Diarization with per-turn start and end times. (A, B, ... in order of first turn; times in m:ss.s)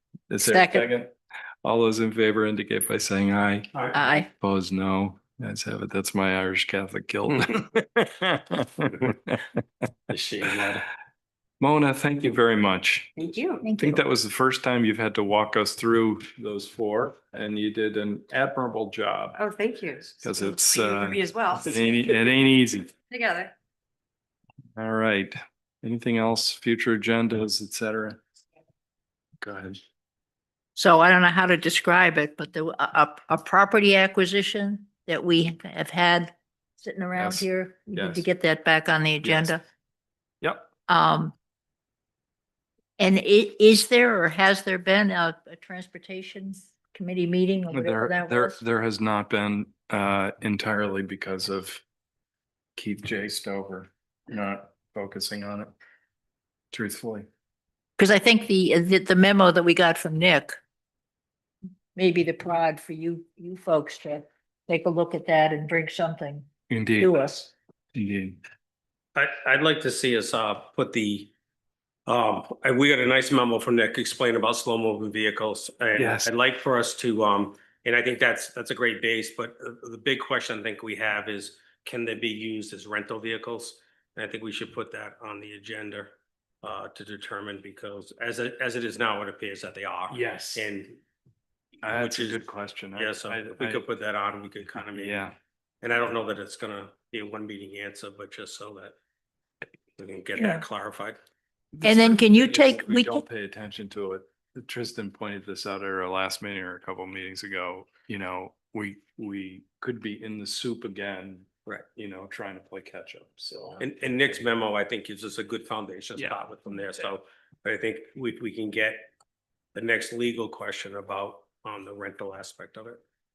0:00.3-0:01.1 A
0:00.4-0:00.9 B
0:01.6-0:03.7 A
0:03.7-0:04.0 C
0:03.9-0:04.3 B
0:04.4-0:09.6 A
0:10.1-0:10.8 C
0:11.6-0:13.1 A
0:13.2-0:13.6 D
0:13.6-0:14.0 B
0:13.8-0:19.4 A
0:19.3-0:22.2 D
0:20.2-0:22.9 A
0:23.1-0:23.5 D
0:24.8-0:28.2 A
0:29.4-0:29.8 A
0:30.8-0:39.6 B
0:37.2-0:38.2 A
0:39.2-0:39.5 A
0:40.4-0:40.7 A
0:40.9-0:41.3 B
0:43.0-0:48.6 B
0:47.7-0:51.8 A
0:52.8-0:55.7 A
0:56.7-0:57.3 A
0:58.0-1:00.6 B
1:02.0-1:06.5 B
1:06.7-1:07.2 A
1:07.0-1:07.5 B
1:07.9-1:08.4 A
1:09.1-1:11.3 C
1:12.0-1:31.0 C
1:16.0-1:16.3 A
1:30.1-1:30.7 A
1:31.8-1:33.8 A
1:31.8-1:32.4 C
1:32.9-1:35.3 C
1:34.9-1:35.3 A
1:35.8-1:39.0 C
1:40.0-1:41.2 C
1:40.4-1:40.6 B
1:41.7-1:53.9 A
1:41.8-1:43.2 B
1:53.8-1:59.1 C
1:59.7-2:03.0 C